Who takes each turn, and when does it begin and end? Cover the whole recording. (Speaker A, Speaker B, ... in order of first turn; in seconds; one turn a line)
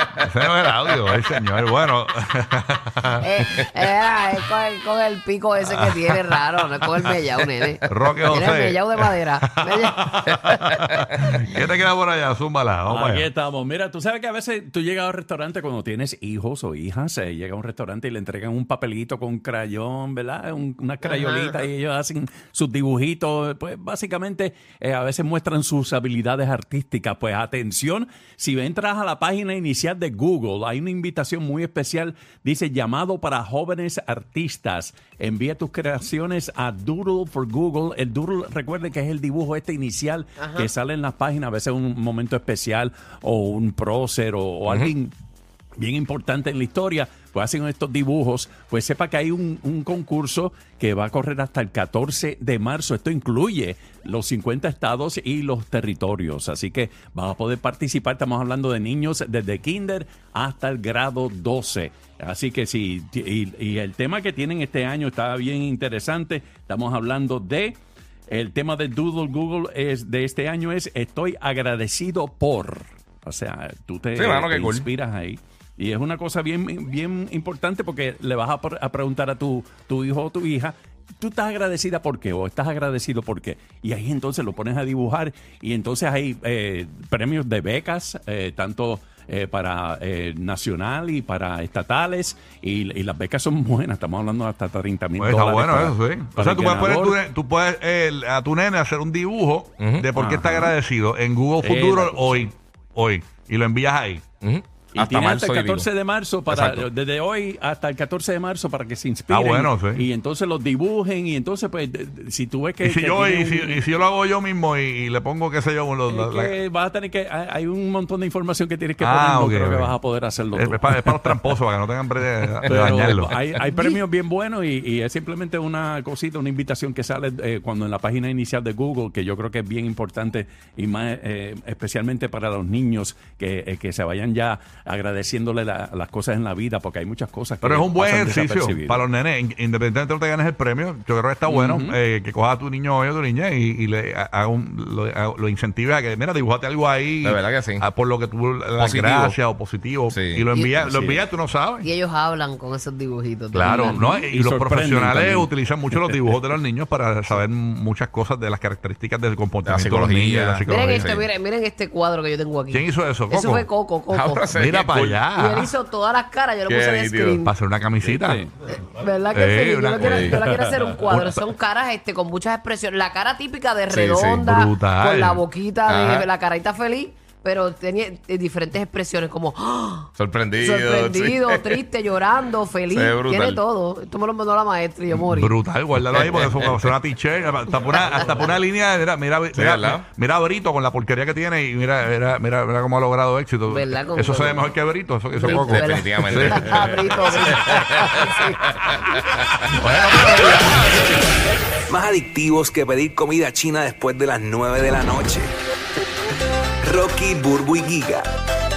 Speaker A: 0.2-3.7
Speaker B: 3.2-10.1
Speaker A: 5.7-6.2
Speaker A: 7.9-13.3
Speaker C: 12.8-45.1
Speaker B: 21.0-21.6
Speaker B: 40.4-40.7
Speaker D: 44.7-44.9
Speaker C: 45.8-67.8
Speaker C: 68.3-97.2
Speaker D: 74.1-74.9
Speaker A: 95.2-104.2
Speaker D: 99.8-100.1
Speaker C: 100.1-100.7
Speaker C: 101.6-102.5
Speaker D: 104.4-105.9
Speaker C: 104.9-113.8
Speaker D: 106.5-106.8
Speaker A: 109.3-110.0
Speaker A: 112.8-116.5
Speaker C: 116.1-121.5
Speaker A: 119.0-120.0
Speaker A: 120.5-123.3
Speaker C: 122.6-139.0
Speaker A: 137.6-151.9
Speaker C: 141.5-142.0
Speaker D: 147.2-147.8
Speaker D: 148.8-149.4
Speaker D: 150.1-150.4
Speaker B: 150.5-150.9
Speaker C: 150.8-151.2
Speaker B: 151.8-154.1
Speaker A: 153.5-161.1
Speaker C: 153.6-156.2
Speaker D: 159.6-161.2
Speaker B: 160.7-164.5
Speaker A: 162.7-163.7
Speaker D: 164.1-165.2
Speaker A: 164.5-165.7
Speaker B: 165.3-167.5
Speaker D: 166.7-167.4
Speaker A: 167.4-168.5
Speaker C: 168.0-168.5
Speaker B: 168.7-185.6
Speaker A: 169.3-170.3
Speaker D: 170.1-170.4
Speaker D: 173.9-174.4
Speaker A: 174.4-175.4
Speaker D: 175.9-176.3
Speaker D: 180.2-181.8
Speaker D: 182.9-183.6
Speaker A: 185.1-197.6
Speaker D: 186.1-186.8
Speaker B: 187.9-188.6
Speaker D: 189.5-190.0
Speaker B: 193.7-194.7
Speaker B: 195.4-199.0
Speaker D: 195.4-197.9
Speaker A: 199.7-200.8
Speaker E: 201.9-205.5
Speaker E: 206.8-208.2